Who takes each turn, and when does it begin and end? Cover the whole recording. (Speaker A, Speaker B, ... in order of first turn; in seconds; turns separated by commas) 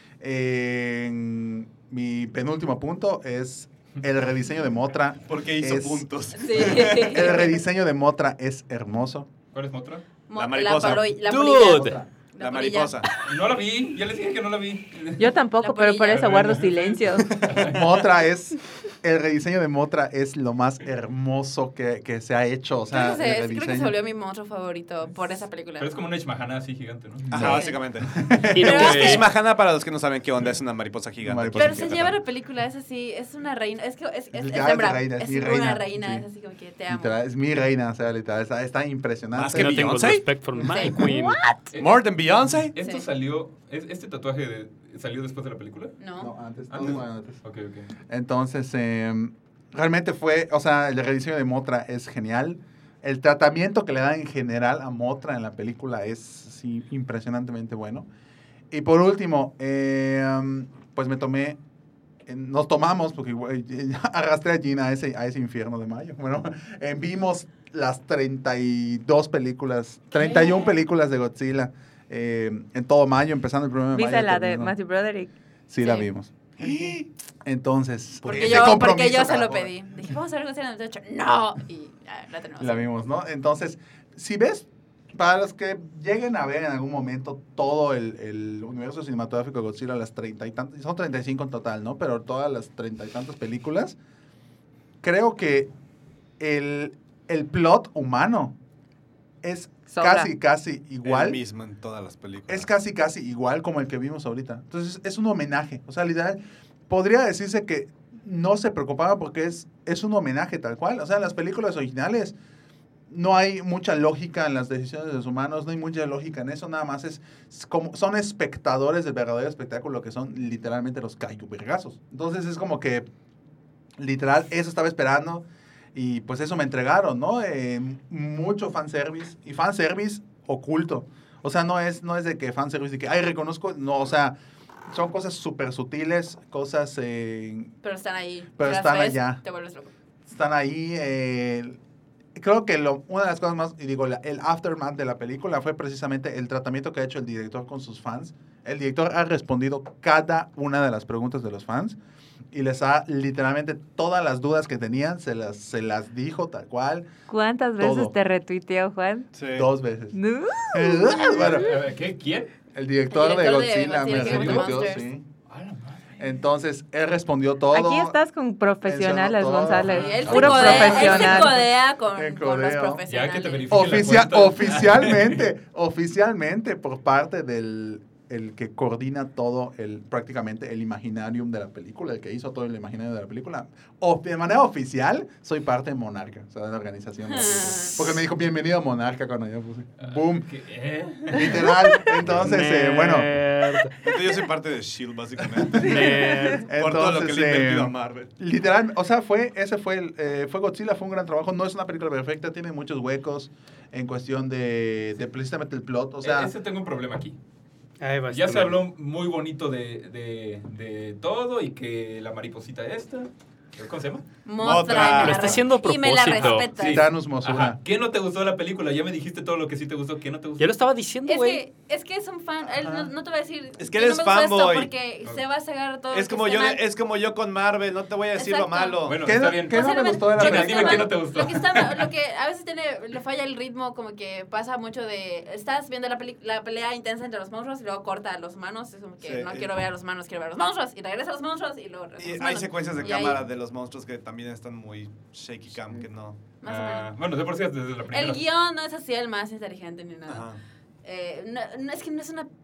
Speaker A: 0.2-6.1, Speaker B: 5.3-7.4, Speaker C: 6.3-7.6, Speaker A: 6.7-9.3, Speaker D: 9.5-10.1, Speaker C: 10.3-13.1, Speaker B: 10.3-11.2, Speaker E: 11.3-11.9, Speaker A: 11.7-12.1, Speaker B: 12.4-13.1, Speaker D: 13.2-15.4, Speaker F: 15.2-17.3, Speaker C: 15.6-16.5, Speaker D: 16.1-18.0, Speaker A: 17.3-23.9, Speaker C: 22.9-25.9, Speaker D: 25.8-27.6, Speaker B: 27.3-32.1, Speaker A: 27.3-28.7, Speaker C: 27.4-27.8, Speaker E: 28.5-29.2, Speaker C: 28.6-29.2, Speaker A: 31.2-32.1, Speaker C: 31.6-37.2, Speaker A: 34.3-36.2, Speaker A: 36.9-40.2, Speaker B: 39.3-40.3, Speaker E: 39.5-41.4, Speaker C: 40.6-41.5, Speaker D: 41.7-46.0, Speaker B: 41.8-42.7, Speaker C: 46.0-46.3, Speaker A: 46.2-47.4, Speaker D: 46.7-47.9, Speaker A: 48.1-58.1, Speaker A: 58.7-61.6, Speaker A: 62.3-74.7, Speaker C: 70.2-70.7, Speaker F: 73.9-75.3, Speaker A: 75.7-79.7, Speaker C: 78.2-82.9, Speaker A: 82.6-94.0, Speaker A: 95.0-95.7, Speaker A: 96.4-98.6, Speaker A: 99.4-101.4, Speaker F: 99.9-100.3, Speaker B: 101.0-102.7, Speaker A: 102.5-112.3, Speaker A: 113.1-123.1, Speaker A: 124.0-134.4, Speaker A: 134.9-137.7, Speaker C: 137.8-139.9, Speaker A: 138.6-139.4, Speaker A: 140.3-141.8, Speaker A: 142.4-152.0, Speaker A: 152.5-157.1, Speaker F: 157.3-159.3, Speaker A: 157.8-158.1, Speaker B: 159.3-159.7, Speaker A: 159.5-160.2, Speaker F: 160.1-161.2, Speaker A: 160.7-161.8, Speaker D: 161.3-162.5, Speaker A: 162.7-165.2, Speaker C: 163.1-165.1, Speaker D: 164.1-164.7, Speaker D: 165.5-166.4, Speaker A: 166.2-168.2, Speaker F: 167.7-171.6, Speaker A: 168.8-171.6, Speaker D: 169.9-171.3, Speaker C: 169.9-173.8, Speaker A: 172.1-173.0, Speaker D: 173.1-175.5, Speaker A: 173.7-190.5, Speaker C: 187.3-188.1, Speaker D: 190.0-192.5, Speaker A: 191.3-193.3, Speaker E: 192.4-193.9, Speaker B: 194.0-198.3, Speaker E: 195.8-196.7, Speaker A: 196.6-206.5, Speaker D: 206.2-207.4, Speaker E: 208.0-208.8, Speaker D: 208.3-214.2, Speaker C: 214.5-217.1, Speaker B: 214.6-215.6, Speaker D: 214.8-215.2, Speaker E: 214.9-216.7, Speaker D: 216.3-220.7, Speaker A: 216.8-217.8, Speaker E: 220.6-221.6, Speaker C: 221.3-226.8, Speaker B: 223.8-224.9, Speaker B: 226.1-229.2, Speaker C: 228.4-243.4, Speaker D: 229.1-232.1, Speaker A: 229.2-231.2, Speaker B: 239.2-239.8, Speaker B: 242.2-246.4, Speaker C: 246.6-247.1, Speaker D: 246.6-248.4, Speaker C: 248.1-250.5, Speaker B: 250.3-250.6, Speaker C: 251.0-252.5